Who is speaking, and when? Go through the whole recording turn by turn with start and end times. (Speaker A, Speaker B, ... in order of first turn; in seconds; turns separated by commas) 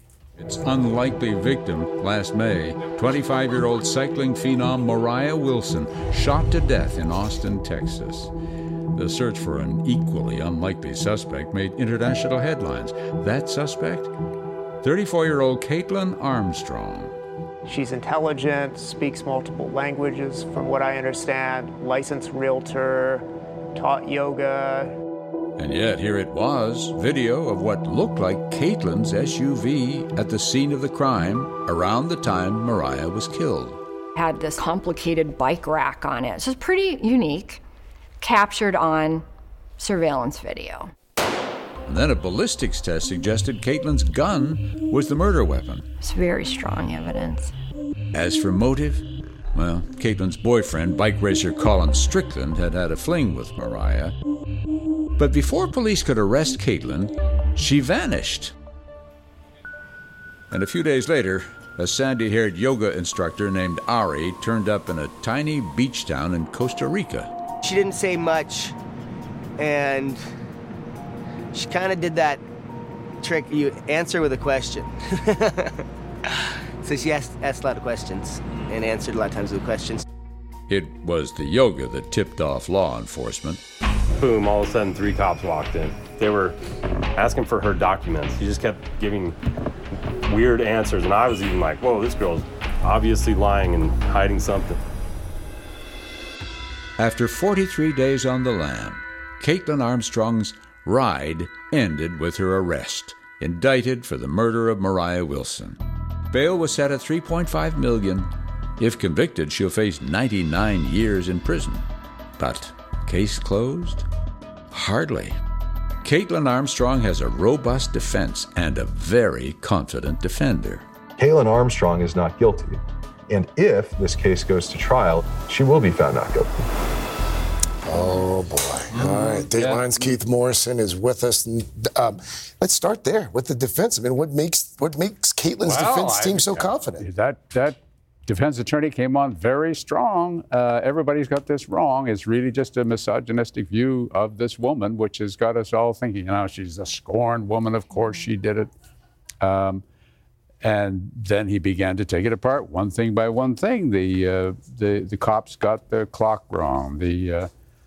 Speaker A: 0.4-8.3, Speaker A: 8.9-14.1, Speaker A: 14.8-17.1, Speaker B: 17.7-24.9, Speaker A: 25.6-33.8, Speaker C: 34.1-37.6, Speaker C: 38.2-39.2, Speaker C: 39.8-40.9, Speaker A: 41.9-45.9, Speaker C: 46.0-47.5, Speaker A: 48.1-54.2, Speaker A: 55.2-58.5, Speaker A: 60.5-67.3, Speaker D: 67.6-68.7, Speaker D: 69.6-70.2, Speaker D: 71.5-72.4, Speaker D: 73.2-80.0, Speaker A: 80.7-83.6, Speaker E: 84.2-86.6, Speaker E: 87.1-89.4, Speaker E: 90.2-94.8, Speaker A: 97.0-105.8, Speaker A: 106.3-111.9, Speaker A: 112.4-114.0, Speaker A: 114.7-115.4, Speaker A: 116.0-120.8, Speaker F: 121.2-126.7, Speaker G: 127.9-137.1, Speaker H: 129.0-129.9, Speaker H: 135.7-148.7, Speaker H: 149.4-149.8, Speaker H: 150.6-157.5